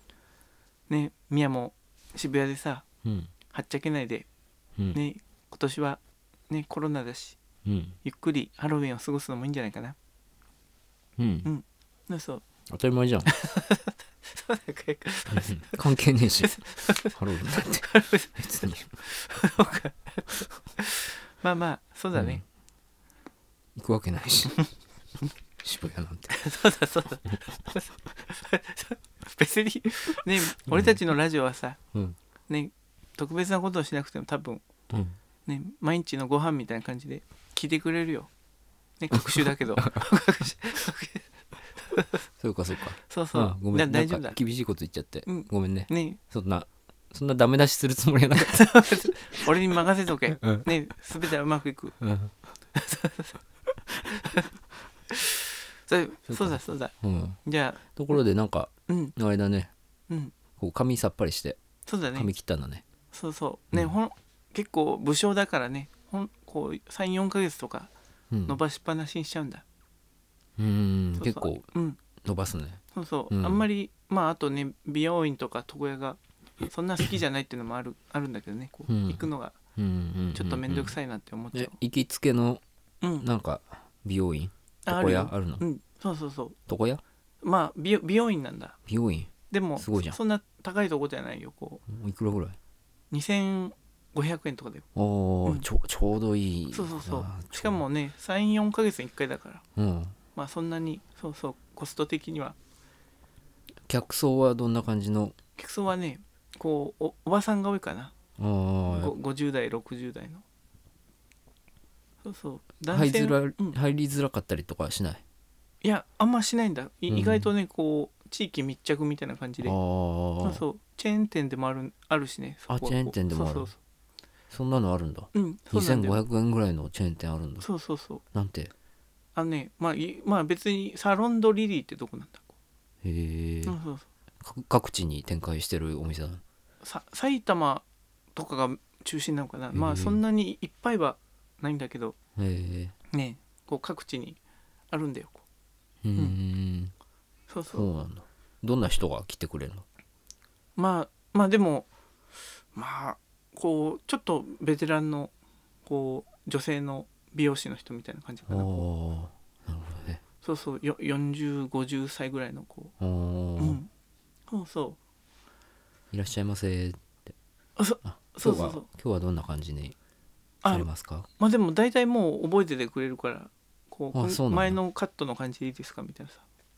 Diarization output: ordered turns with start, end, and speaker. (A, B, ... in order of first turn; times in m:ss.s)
0:00.9-0:02.8 A
0:03.0-0:03.3 B
0:03.5-0:04.3 A
0:04.9-0:07.4 A
0:07.6-0:08.0 B
0:08.0-0:10.0 A
0:11.2-0:11.5 B
0:11.4-0:12.4 A
0:12.7-0:13.3 B
0:13.3-0:15.8 A
0:15.3-0:18.9 B
0:16.4-0:17.1 A
0:17.8-0:22.4 A
0:22.2-0:22.4 B
0:23.8-0:24.6 B
0:25.6-0:26.3 B
0:26.3-0:31.8 A
0:30.7-0:31.0 B
0:32.5-0:34.6 A
0:34.9-0:35.2 B
0:35.5-0:38.3 A
0:39.0-0:41.3 A
0:39.1-0:40.0 B
0:41.9-0:42.2 A
0:42.4-0:49.1 B
0:43.1-0:44.4 A
0:45.3-0:46.2 A
0:48.4-0:52.0 A
0:50.4-0:50.7 B
0:52.0-0:52.3 B
0:52.8-0:53.4 A
0:54.1-0:54.5 A
0:55.1-0:57.8 A
0:56.3-0:59.7 B
0:58.9-0:59.1 A
1:00.6-1:01.6 B
1:01.9-1:02.3 A
1:02.2-1:02.8 B
1:03.1-1:07.9 A
1:08.3-1:08.6 B
1:08.5-1:09.6 A
1:10.6-1:11.7 B
1:11.2-1:12.0 A
1:12.2-1:13.6 B
1:12.9-1:19.6 A
1:18.9-1:19.2 B
1:19.8-1:21.0 B
1:20.3-1:21.8 A
1:21.5-1:22.6 B
1:23.0-1:23.3 A
1:23.2-1:25.6 B
1:24.9-1:26.6 A
1:26.7-1:27.0 B
1:27.4-1:28.8 A
1:28.9-1:30.2 B
1:29.5-1:31.8 A
1:31.9-1:32.6 B
1:33.1-1:34.9 A
1:35.0-1:37.8 B
1:36.7-1:39.6 A
1:39.8-1:40.2 B
1:40.4-1:42.6 A
1:43.9-1:45.4 B
1:45.6-1:48.2 A
1:48.4-1:49.1 B
1:48.9-1:50.4 A
1:52.2-1:53.8 A
1:52.9-1:55.2 B
1:55.8-1:59.8 A
1:57.1-1:57.5 B
1:59.6-2:00.6 B
2:00.4-2:03.8 A
2:02.7-2:03.7 B
2:04.5-2:07.7 B
2:05.3-2:06.2 A
2:07.6-2:08.2 A
2:08.3-2:08.7 B
2:09.4-2:12.5 A
2:13.0-2:13.8 B
2:13.6-2:14.0 A
2:14.4-2:16.4 B
2:16.8-2:22.2 A
2:19.7-2:20.2 B
2:22.4-2:23.0 B
2:23.1-2:24.4 A
2:24.9-2:25.4 A
2:26.0-2:26.9 B
2:27.5-2:27.9 A
2:27.7-2:29.8 B
2:30.8-2:31.9 A
2:32.8-2:35.3 A
2:35.9-2:38.9 A
2:38.5-2:40.2 B
2:40.4-2:42.9 A
2:43.0-2:43.8 B
2:43.6-2:43.9 A
2:44.5-2:45.0 A
2:46.1-2:47.3 B
2:47.8-2:48.9 A
2:48.1-2:50.0 B
2:50.6-2:56.4 A
2:50.7-2:51.3 B
2:54.1-2:54.8 B